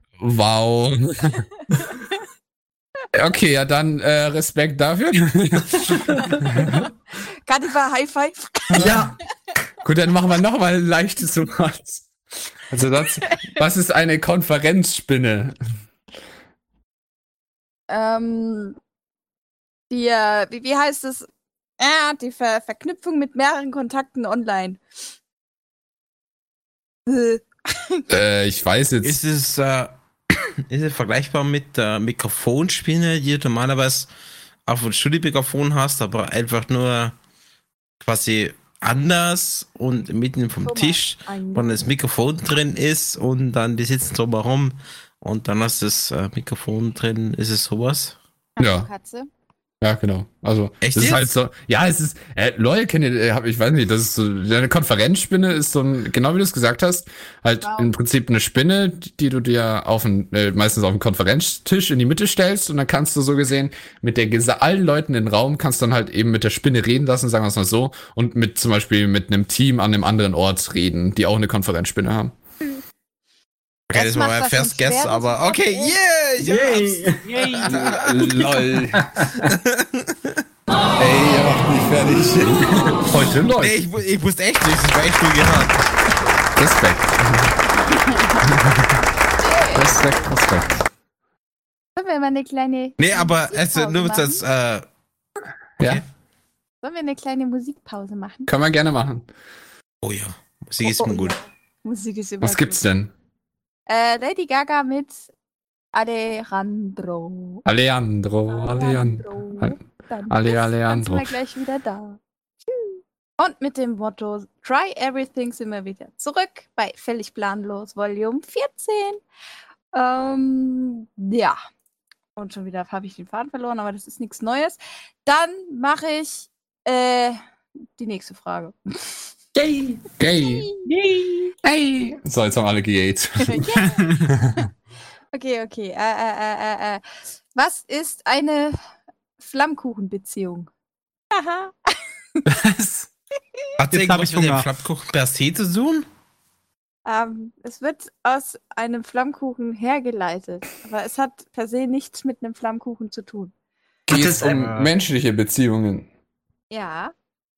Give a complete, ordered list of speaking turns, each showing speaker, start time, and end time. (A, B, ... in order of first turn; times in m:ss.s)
0:00.2-0:01.4 A
0:03.1-0:06.9 A
0:06.2-0:06.8 B
0:07.4-0:09.0 B
0:08.7-0:09.1 A
0:08.7-0:09.1 C
0:09.8-0:12.1 A
0:12.7-0:15.6 A
0:13.2-0:13.5 B
0:17.9-0:18.8 B
0:19.9-0:21.3 B
0:21.8-0:24.8 B
0:27.1-0:28.0 B
0:28.1-0:29.2 A
0:29.0-0:34.1 D
0:34.7-0:37.1 D
0:38.0-0:48.2 D
0:40.6-0:41.8 B
0:48.6-0:49.3 B
0:48.6-0:48.9 A
0:49.8-1:12.3 A
0:50.8-0:51.2 D
0:57.6-0:57.9 B
1:13.9-1:18.2 D
1:13.9-1:16.0 B
1:16.4-1:17.3 C
1:17.2-1:18.0 E
1:17.6-1:19.4 A
1:18.2-1:19.5 C
1:19.4-1:20.4 D
1:21.0-1:23.7 A
1:23.1-1:23.7 C
1:23.6-1:25.8 D
1:26.6-1:27.6 A
1:28.0-1:28.4 B
1:28.4-1:29.0 A
1:29.4-1:29.8 B
1:29.7-1:30.7 A
1:32.0-1:34.4 B
1:33.0-1:34.8 D
1:36.8-1:38.5 B
1:38.5-1:39.3 A
1:40.0-1:41.4 D
1:40.9-1:42.8 B
1:42.4-1:43.1 A
1:43.9-1:45.2 B
1:45.9-1:47.6 B
1:47.6-1:49.8 A
1:48.5-1:52.2 B
1:50.3-1:51.4 A
1:52.7-1:59.2 B
1:59.9-2:01.6 B
2:02.4-2:07.4 B
2:08.0-2:09.1 B
2:09.5-2:10.0 C
2:10.2-2:10.7 A
2:10.3-2:10.9 B
2:10.9-2:11.4 E
2:11.6-2:13.6 A
2:13.4-2:14.2 B
2:13.8-2:14.2 E
2:14.3-2:14.6 A
2:15.3-2:17.0 B
2:17.5-2:18.8 B
2:19.4-2:20.7 B
2:21.3-2:22.0 B
2:22.5-2:23.1 E
2:23.8-2:26.0 D
2:23.9-2:24.7 E
2:27.0-2:33.5 B
2:34.1-2:34.6 C
2:34.1-2:36.1 A
2:34.4-2:34.9 E
2:36.7-2:37.1 B